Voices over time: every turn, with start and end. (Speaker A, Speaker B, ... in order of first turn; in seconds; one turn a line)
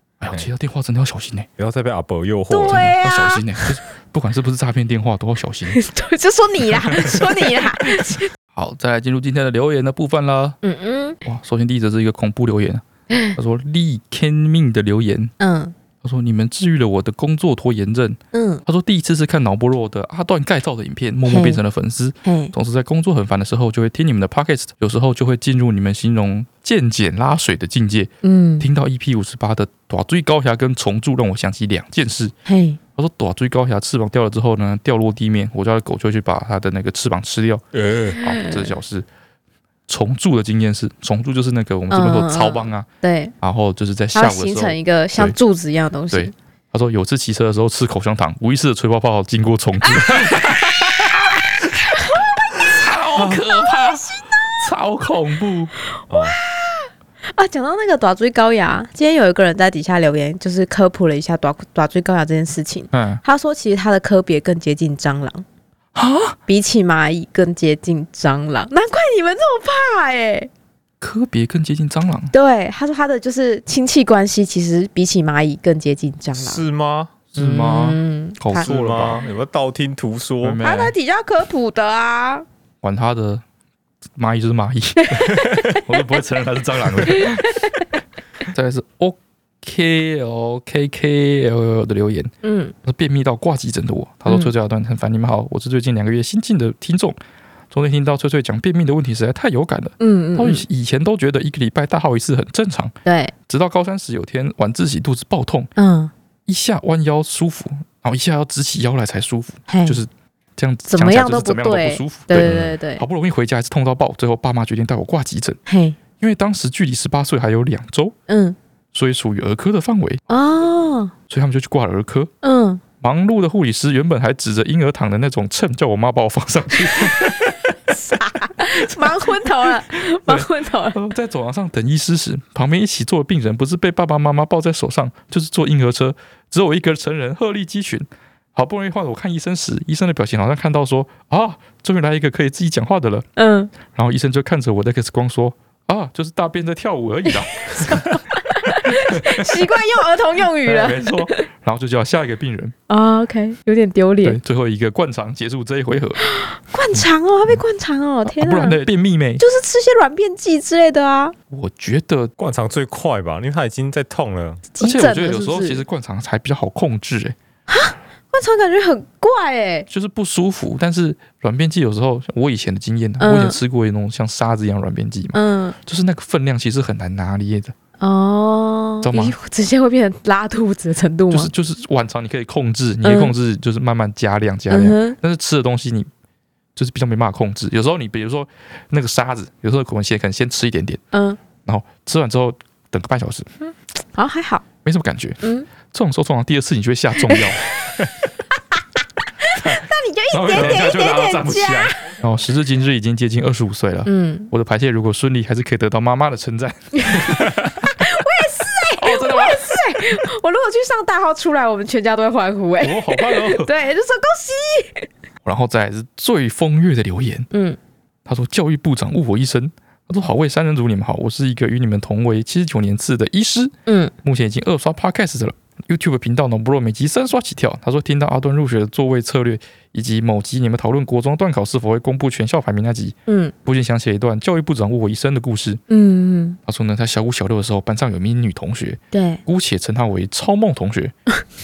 Speaker A: 0.2-1.5
Speaker B: 1.6-3.0
Speaker C: 2.5-3.7
Speaker A: 2.7-5.8
Speaker C: 5.7-8.3
Speaker A: 7.9-10.6
Speaker C: 10.6-11.2
Speaker A: 11.2-12.8
Speaker C: 13.1-13.4
Speaker A: 13.3-15.3
Speaker C: 15.4-15.7
Speaker A: 16.0-32.3
Speaker C: 18.3-18.6
Speaker C: 21.3-21.6
Speaker C: 22.2-22.5
Speaker C: 28.2-28.7
Speaker C: 32.5-32.8
Speaker A: 33.0-37.6
Speaker B: 37.7-38.2
Speaker C: 38.2-38.7
Speaker A: 38.2-39.1
Speaker A: 39.9-42.9
Speaker C: 41.9-43.3
Speaker A: 43.4-45.4
Speaker C: 44.1-46.3
Speaker A: 46.1-51.1
Speaker C: 50.0-51.1
Speaker C: 51.7-52.9
Speaker A: 52.6-55.7
Speaker B: 53.2-53.4
Speaker C: 53.5-54.4
Speaker C: 56.0-65.5
Speaker B: 56.1-56.4
Speaker A: 62.9-63.2
Speaker A: 66.0-66.4
Speaker C: 66.5-70.5
Speaker A: 71.0-72.3
Speaker C: 72.3-76.6
Speaker B: 76.4-77.3
Speaker A: 77.3-79.2
Speaker C: 77.3-78.7
Speaker B: 78.6-80.6
Speaker A: 80.4-80.9
Speaker C: 80.6-82.5
Speaker A: 82.8-83.4
Speaker A: 84.2-87.6
Speaker C: 85.0-85.8
Speaker C: 87.1-87.8
Speaker A: 88.4-92.3
Speaker C: 92.4-92.7
Speaker A: 92.8-97.2
Speaker C: 94.3-94.5
Speaker A: 97.7-103.0
Speaker C: 100.0-100.7
Speaker C: 103.0-103.3
Speaker A: 103.5-105.7
Speaker C: 105.8-106.1
Speaker A: 106.5-115.6
Speaker C: 109.7-110.0
Speaker C: 110.9-113.0
Speaker B: 112.4-112.7
Speaker C: 115.7-116.0
Speaker A: 116.2-118.2
Speaker C: 118.3-118.6
Speaker A: 118.9-120.2
Speaker C: 120.3-121.1
Speaker A: 121.3-122.3
Speaker C: 122.4-122.8
Speaker A: 123.0-127.6
Speaker C: 126.9-131.0
Speaker A: 128.8-143.3
Speaker C: 143.4-143.7
Speaker A: 143.8-148.0
Speaker C: 147.6-151.4
Speaker A: 148.9-149.8
Speaker A: 150.6-152.8
Speaker C: 152.9-154.4
Speaker A: 154.2-156.2
Speaker C: 156.2-158.8
Speaker A: 158.3-159.4
Speaker C: 159.4-161.3
Speaker A: 161.5-162.3
Speaker B: 162.4-164.6
Speaker C: 164.8-165.8
Speaker A: 164.8-167.3
Speaker C: 167.7-169.9
Speaker A: 169.9-177.7
Speaker C: 173.2-173.6
Speaker C: 175.3-175.8
Speaker C: 178.0-181.5
Speaker A: 179.0-179.3
Speaker A: 181.3-186.1
Speaker C: 183.0-183.3
Speaker C: 184.7-185.2
Speaker A: 186.8-191.0
Speaker C: 191.1-191.4
Speaker A: 191.7-193.5
Speaker C: 194.2-194.6
Speaker A: 194.8-197.6
Speaker C: 195.4-195.7
Speaker C: 197.3-198.0
Speaker C: 199.4-202.1
Speaker A: 199.6-207.9
Speaker B: 200.6-200.8
Speaker C: 204.1-204.5
Speaker C: 206.9-215.1
Speaker A: 209.0-209.8
Speaker A: 212.8-213.7
Speaker A: 215.4-217.5
Speaker C: 217.5-217.8
Speaker A: 218.3-235.8
Speaker C: 223.9-224.1
Speaker C: 233.3-233.5
Speaker C: 235.9-236.6
Speaker A: 236.7-241.2
Speaker C: 239.1-239.4